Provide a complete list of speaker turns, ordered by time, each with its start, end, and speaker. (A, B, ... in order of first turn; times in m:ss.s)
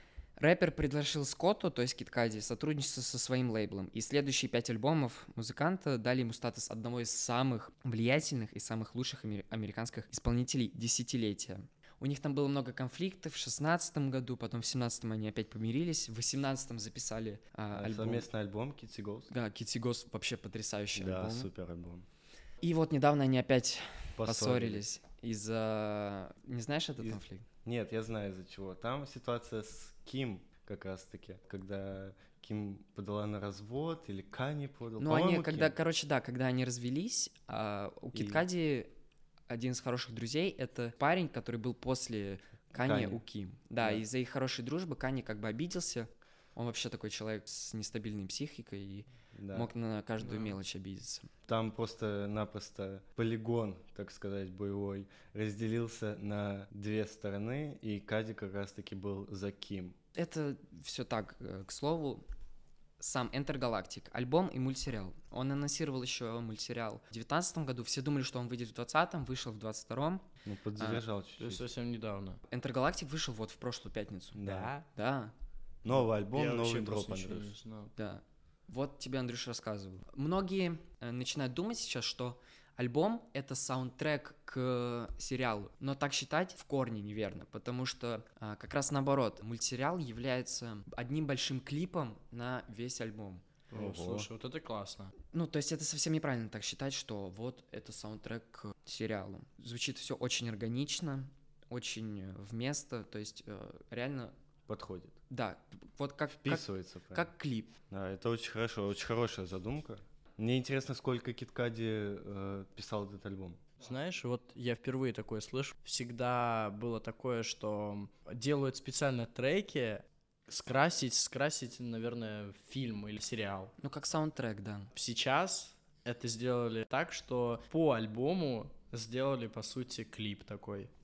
0:00.4-0:18.2 A
0:17.7-0:19.3 B
0:19.3-0:21.5 A
0:21.0-0:22.0 B
0:22.6-0:27.4 A
0:24.2-0:24.8 B
0:27.0-0:35.8 B
0:35.0-0:38.9 A
0:38.1-0:38.4 B
0:39.5-0:51.3 A
0:42.8-0:43.2 B
0:49.3-0:49.7 B
0:50.3-0:50.5 C
0:51.5-0:59.9 B
1:00.1-1:02.2 A
1:03.0-1:11.0 A
1:10.4-1:11.6 B
1:11.4-1:12.4 C
1:12.5-1:15.3 A
1:14.4-1:14.7 B
1:14.5-1:14.8 C
1:15.8-1:17.5 B
1:15.9-1:17.9 C
1:18.0-1:33.4 A
1:33.7-1:35.1 C
1:33.7-1:34.3 B
1:35.3-1:44.3 A
1:44.7-1:45.1 B
1:45.3-1:47.7 A
1:46.3-1:47.3 B
1:47.9-1:53.6 B
1:53.8-2:03.7 C
2:03.8-2:04.9 A
2:04.9-2:10.9 C